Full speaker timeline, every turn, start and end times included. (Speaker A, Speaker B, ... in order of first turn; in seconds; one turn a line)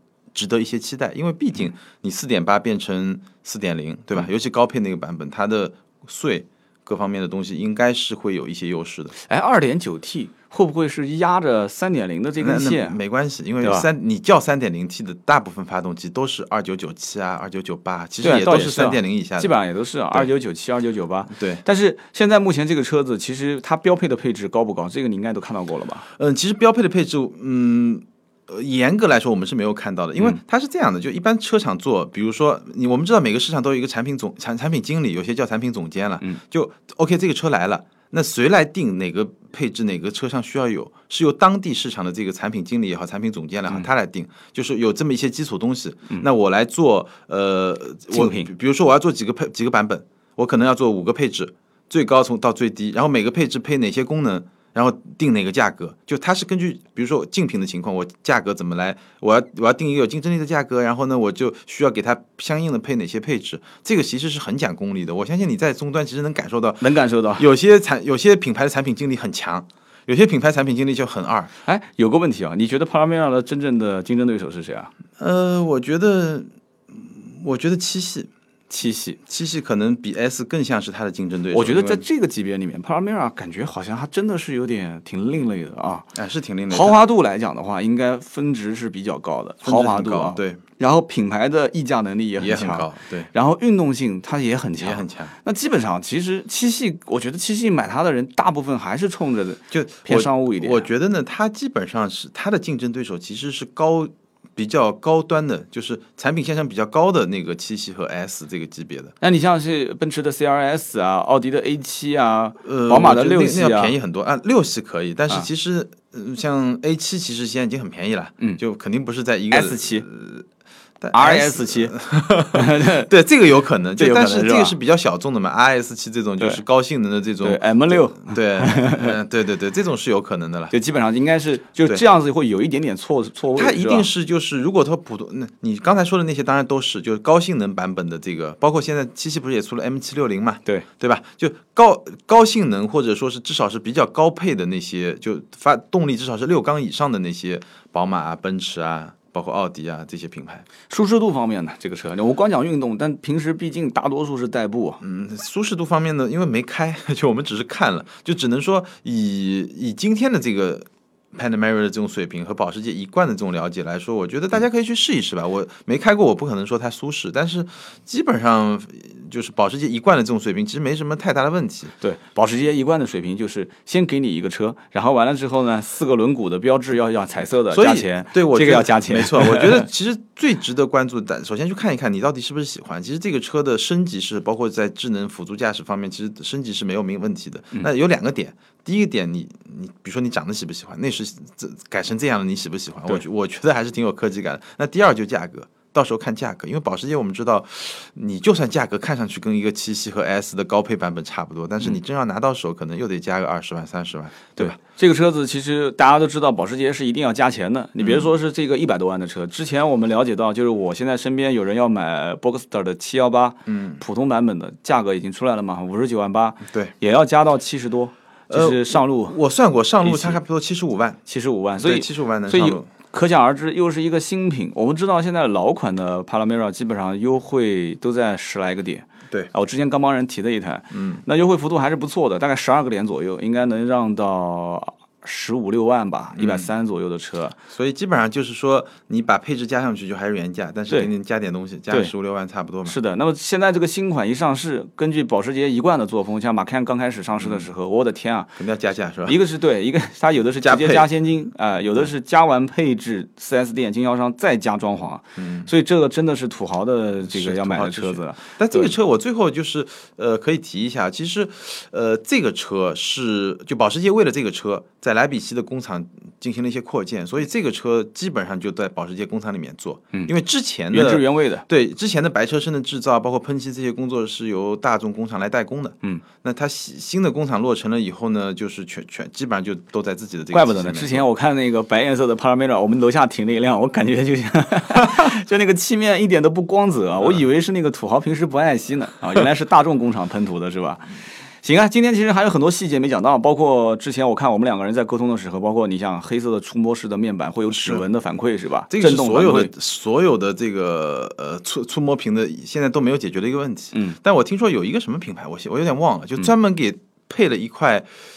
Speaker A: 0.3-9.1
Speaker B: 9.2-13.0
Speaker A: 12.4-19.5
Speaker B: 13.6-13.9
Speaker B: 18.2-26.1
Speaker A: 21.3-21.6
Speaker A: 26.2-71.5
Speaker B: 48.1-48.5
Speaker B: 66.8-67.5
Speaker B: 71.7-74.9
Speaker A: 75.2-78.3
Speaker B: 78.7-79.2
Speaker A: 79.3-82.0
Speaker B: 81.5-86.1
Speaker A: 86.2-87.0
Speaker B: 86.7-100.9
Speaker A: 89.6-90.6
Speaker A: 92.4-93.3
Speaker A: 94.8-95.3
Speaker A: 99.7-109.1
Speaker B: 109.2-113.9
Speaker A: 112.6-120.5
Speaker B: 119.5-120.0
Speaker A: 121.0-130.7
Speaker B: 121.1-122.0
Speaker B: 122.5-123.1
Speaker B: 124.0-124.8
Speaker B: 127.4-129.1
Speaker B: 130.7-134.1
Speaker A: 133.6-150.7
Speaker B: 150.9-155.0
Speaker A: 155.0-171.9
Speaker B: 172.0-179.9
Speaker A: 177.7-204.8
Speaker B: 204.6-219.4
Speaker A: 208.0-208.3
Speaker A: 213.7-214.0
Speaker A: 216.7-216.9
Speaker A: 218.5-221.2
Speaker B: 220.0-220.4
Speaker B: 221.3-237.6
Speaker A: 221.8-222.9
Speaker A: 230.9-231.2
Speaker A: 236.4-236.7
Speaker A: 237.7-243.0
Speaker B: 242.9-248.5
Speaker A: 247.4-247.7
Speaker A: 248.6-249.4
Speaker B: 249.3-258.9
Speaker A: 250.6-251.1
Speaker A: 255.4-255.7
Speaker A: 257.3-281.3
Speaker B: 270.9-271.6
Speaker B: 280.5-299.7
Speaker A: 297.8-298.0
Speaker A: 298.9-308.1